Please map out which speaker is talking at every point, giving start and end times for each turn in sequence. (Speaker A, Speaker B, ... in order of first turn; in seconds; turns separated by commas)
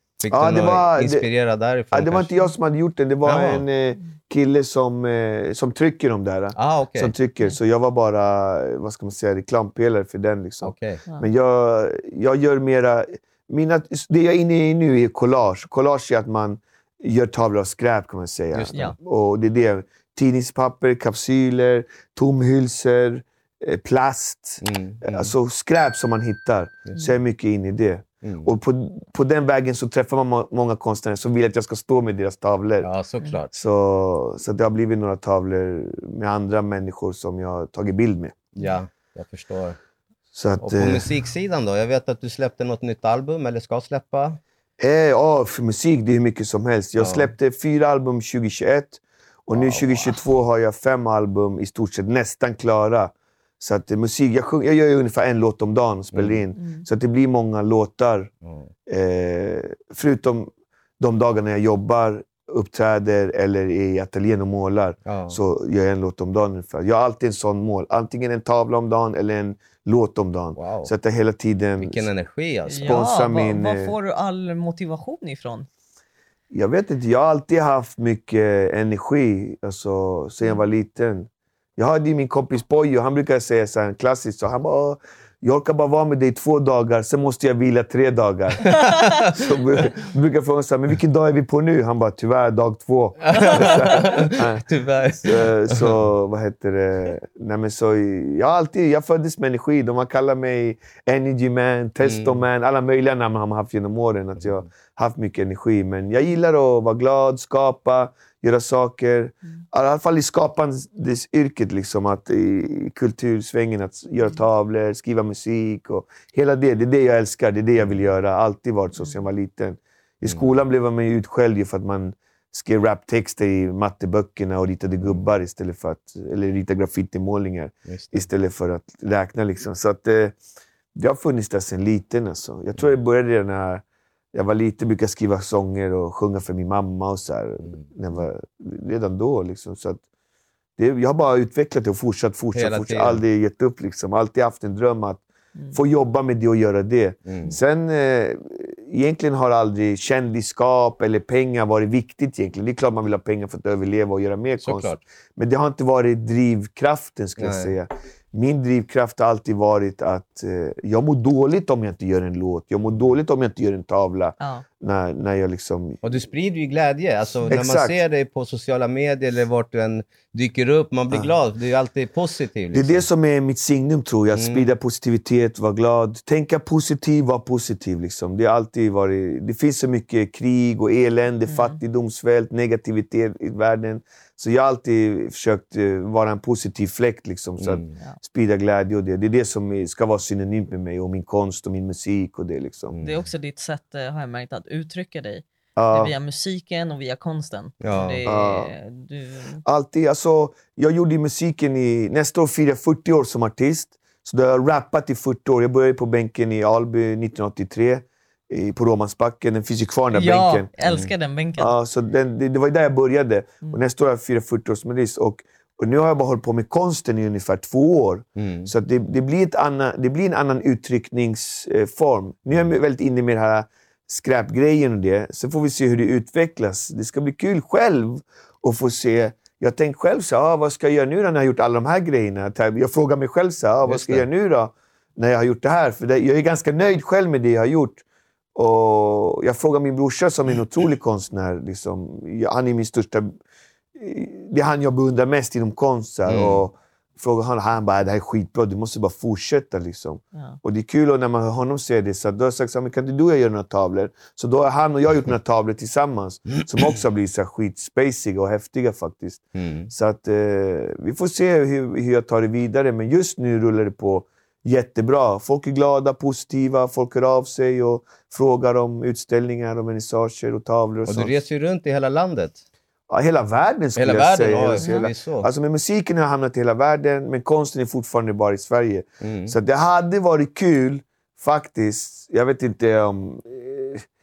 Speaker A: 0.2-2.3, Speaker B: 0.3-1.2, Speaker B: 1.9-32.9, Speaker A: 3.2-3.6, Speaker A: 6.5-7.1, Speaker A: 10.6-11.0, Speaker A: 24.6-25.3, Speaker A: 28.2-28.5, Speaker A: 32.8-33.5, Speaker B: 33.5-38.4, Speaker A: 38.5-39.8, Speaker B: 40.3-41.1, Speaker A: 40.6-44.4, Speaker B: 44.8-58.3, Speaker A: 47.0-47.3, Speaker A: 49.5-50.2, Speaker A: 56.1-56.4, Speaker C: 56.6-56.9, Speaker A: 58.4-58.7, Speaker B: 58.9-72.1, Speaker A: 65.0-65.4, Speaker A: 70.6-70.9, Speaker A: 71.8-73.0, Speaker C: 72.7-75.7, Speaker B: 72.8-73.9, Speaker B: 76.5-94.6, Speaker A: 88.6-89.3, Speaker A: 93.2-95.9, Speaker B: 95.2-130.4, Speaker A: 102.0-102.4, Speaker A: 127.9-128.2, Speaker B: 130.9-133.8, Speaker B: 134.3-140.0, Speaker B: 140.8-166.0, Speaker A: 142.5-143.2, Speaker A: 147.2-147.6, Speaker A: 154.6-155.0, Speaker A: 157.4-157.7, Speaker A: 166.0-173.0, Speaker B: 167.5-168.0, Speaker B: 172.7-193.0, Speaker A: 174.3-174.7, Speaker C: 181.5-181.8, Speaker A: 187.6-187.9, Speaker A: 192.9-193.2, Speaker C: 193.0-199.6, Speaker B: 195.8-196.1, Speaker A: 197.8-198.2, Speaker B: 198.2-198.7, Speaker B: 199.6-210.7, Speaker C: 210.1-211.7, Speaker A: 210.8-211.1, Speaker B: 211.6-238.0, Speaker A: 218.4-218.7, Speaker A: 233.9-234.2, Speaker B: 238.5-243.3, Speaker B: 244.0-271.4, Speaker A: 246.3-246.6, Speaker A: 259.6-259.9, Speaker A: 271.1-272.6, Speaker B: 273.1-284.0, Speaker A: 274.0-275.5, Speaker A: 279.2-279.5